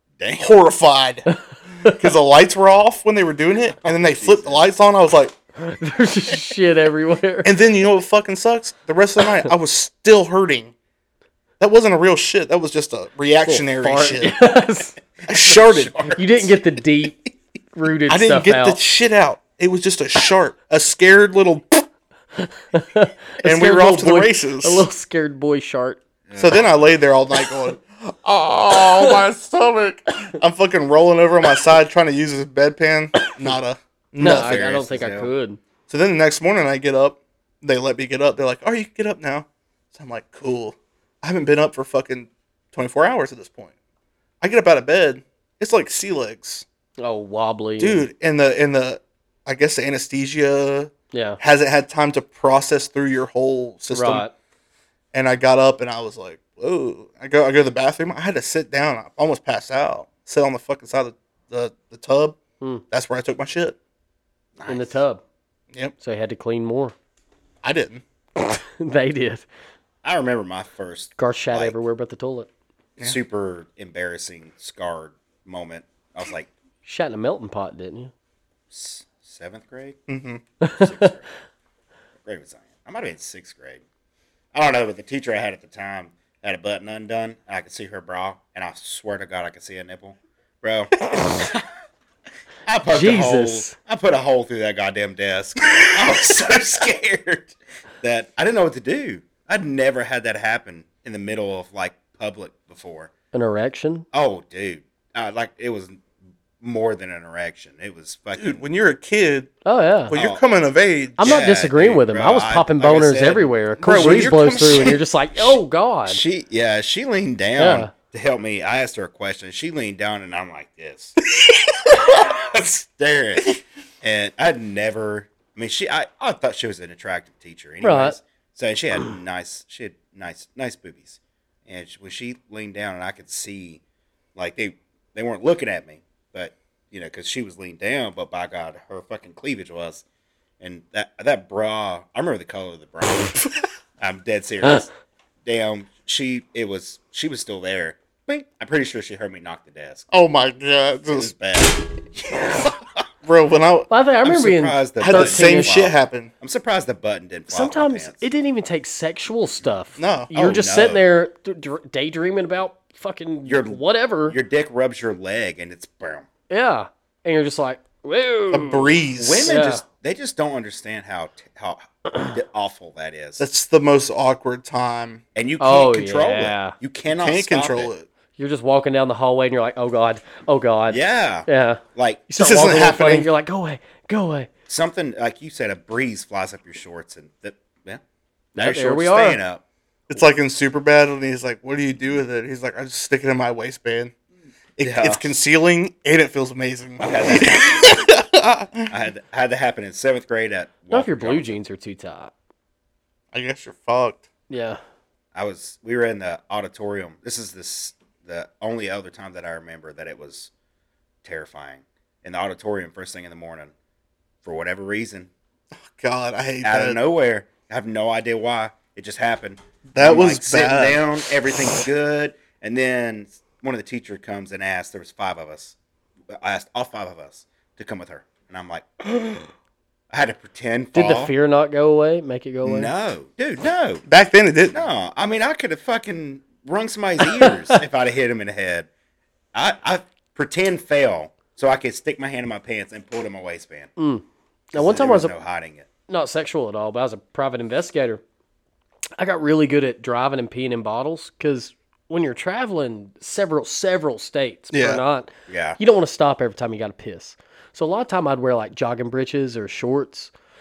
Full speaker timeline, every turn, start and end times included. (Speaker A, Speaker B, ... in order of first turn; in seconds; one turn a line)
Speaker A: 0.2-0.5
Speaker B: 0.4-5.3
Speaker A: 3.8-4.6
Speaker C: 5.6-7.5
Speaker B: 7.4-10.7
Speaker B: 11.6-14.4
Speaker C: 13.4-14.9
Speaker A: 15.2-16.6
Speaker B: 15.3-16.1
Speaker C: 16.1-17.2
Speaker C: 17.7-18.8
Speaker B: 18.1-21.9
Speaker C: 22.4-26.0
Speaker B: 23.4-24.9
Speaker A: 26.3-26.7
Speaker B: 26.4-34.6
Speaker C: 34.2-35.6
Speaker A: 34.2-35.3
Speaker B: 35.9-43.7
Speaker B: 44.4-46.6
Speaker C: 47.0-48.1
Speaker B: 47.8-54.2
Speaker C: 51.1-51.4
Speaker C: 53.9-54.3
Speaker B: 55.1-62.4
Speaker B: 62.9-63.8
Speaker A: 64.6-65.0
Speaker C: 64.7-65.2
Speaker C: 66.0-66.9
Speaker B: 67.6-68.0
Speaker C: 68.4-69.5
Speaker A: 70.0-71.8
Speaker C: 71.2-72.5
Speaker A: 73.0-76.5
Speaker C: 76.8-78.1
Speaker A: 78.7-80.0
Speaker B: 80.1-80.4
Speaker C: 80.6-81.1
Speaker A: 80.8-81.3
Speaker A: 82.2-83.8
Speaker A: 84.5-91.6
Speaker A: 92.7-103.1
Speaker C: 92.9-93.8
Speaker C: 103.3-104.0
Speaker A: 104.1-106.0
Speaker A: 106.6-108.6
Speaker B: 108.4-109.5
Speaker C: 109.6-110.1
Speaker B: 110.1-111.4
Speaker A: 110.1-110.4
Speaker A: 111.2-113.5
Speaker C: 111.2-116.2
Speaker B: 113.8-115.0
Speaker A: 116.1-121.1
Speaker C: 117.6-117.9
Speaker B: 121.4-122.0
Speaker A: 122.0-133.8
Speaker C: 127.8-128.2
Speaker A: 134.3-140.0
Speaker A: 140.6-143.4
Speaker A: 144.0-144.9
Speaker A: 145.4-150.1
Speaker B: 150.1-151.3
Speaker A: 151.1-153.0
Speaker B: 153.2-153.9
Speaker C: 153.9-155.8
Speaker A: 154.2-158.2
Speaker B: 155.0-156.3
Speaker C: 157.5-164.4
Speaker B: 160.0-160.6
Speaker A: 160.3-161.0
Speaker A: 163.4-166.3
Speaker C: 166.5-169.8
Speaker B: 168.5-169.5
Speaker A: 169.2-173.4
Speaker B: 173.4-175.2
Speaker A: 175.3-177.9
Speaker C: 175.6-176.8
Speaker B: 177.1-178.1
Speaker C: 178.4-184.5
Speaker A: 180.9-182.3
Speaker B: 182.4-183.3
Speaker A: 184.7-188.0
Speaker C: 188.6-189.4
Speaker A: 188.6-189.6
Speaker B: 190.1-194.1
Speaker B: 194.8-198.9
Speaker A: 194.8-195.2
Speaker A: 197.0-198.0
Speaker A: 198.9-201.6
Speaker C: 200.9-202.3
Speaker B: 203.3-204.2
Speaker C: 204.5-204.8
Speaker A: 205.3-210.5
Speaker A: 211.2-213.7
Speaker A: 214.4-215.3
Speaker B: 215.8-217.0
Speaker A: 216.6-225.8
Speaker B: 219.9-221.3
Speaker A: 226.3-229.5
Speaker A: 230.1-231.3
Speaker C: 230.9-232.9
Speaker A: 232.6-234.1
Speaker B: 234.1-234.8
Speaker A: 234.7-238.9
Speaker C: 237.4-237.8
Speaker A: 239.5-243.9
Speaker C: 244.0-245.3
Speaker A: 244.7-245.9
Speaker C: 246.1-248.2
Speaker C: 249.2-260.3
Speaker B: 254.7-255.0
Speaker A: 255.5-255.8